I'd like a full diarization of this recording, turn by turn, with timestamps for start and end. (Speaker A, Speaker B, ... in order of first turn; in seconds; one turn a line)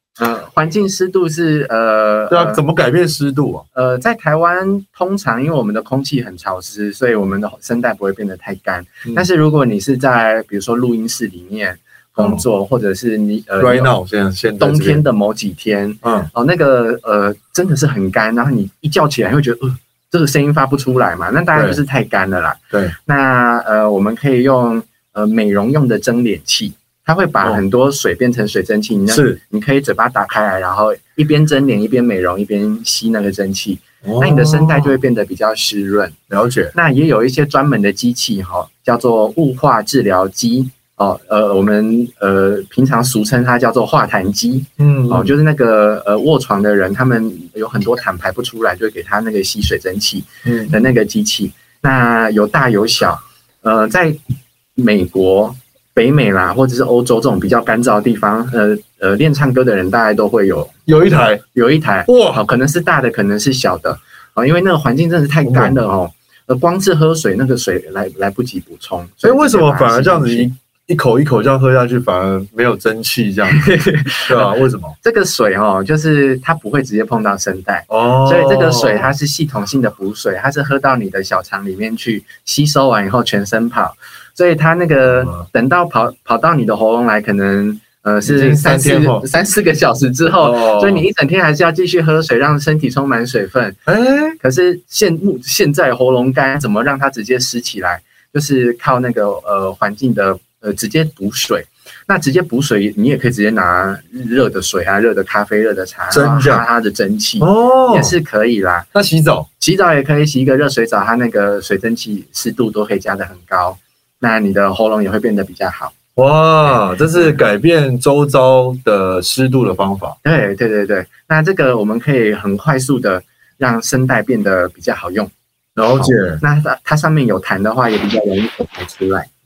Speaker A: 0.2-2.6
Speaker B: 2.3-3.7
Speaker A: 3.7-13.9
Speaker B: 12.2-12.4
Speaker B: 13.6-15.0
Speaker A: 14.6-36.2
Speaker B: 16.0-16.3
Speaker B: 21.6-21.8
Speaker B: 29.1-29.4
Speaker B: 34.0-35.0
Speaker B: 36.3-36.7
Speaker A: 36.7-54.2
Speaker B: 44.8-45.3
Speaker B: 50.5-50.7
Speaker A: 54.8-70.5
Speaker B: 60.9-61.4
Speaker B: 62.1-62.4
Speaker B: 65.5-65.8
Speaker B: 69.2-73.6
Speaker A: 73.5-93.8
Speaker B: 74.2-75.0
Speaker B: 77.9-79.1
Speaker B: 85.0-85.4
Speaker B: 88.2-89.2
Speaker B: 90.4-91.1
Speaker B: 93.9-94.4
Speaker A: 94.4-108.9
Speaker B: 106.1-106.7
Speaker B: 107.4-108.2
Speaker B: 108.9-109.5
Speaker A: 109.6-116.0
Speaker B: 116.2-120.2
Speaker A: 116.7-117.4
Speaker A: 120.2-125.3
Speaker B: 125.8-126.4
Speaker A: 126.0-129.3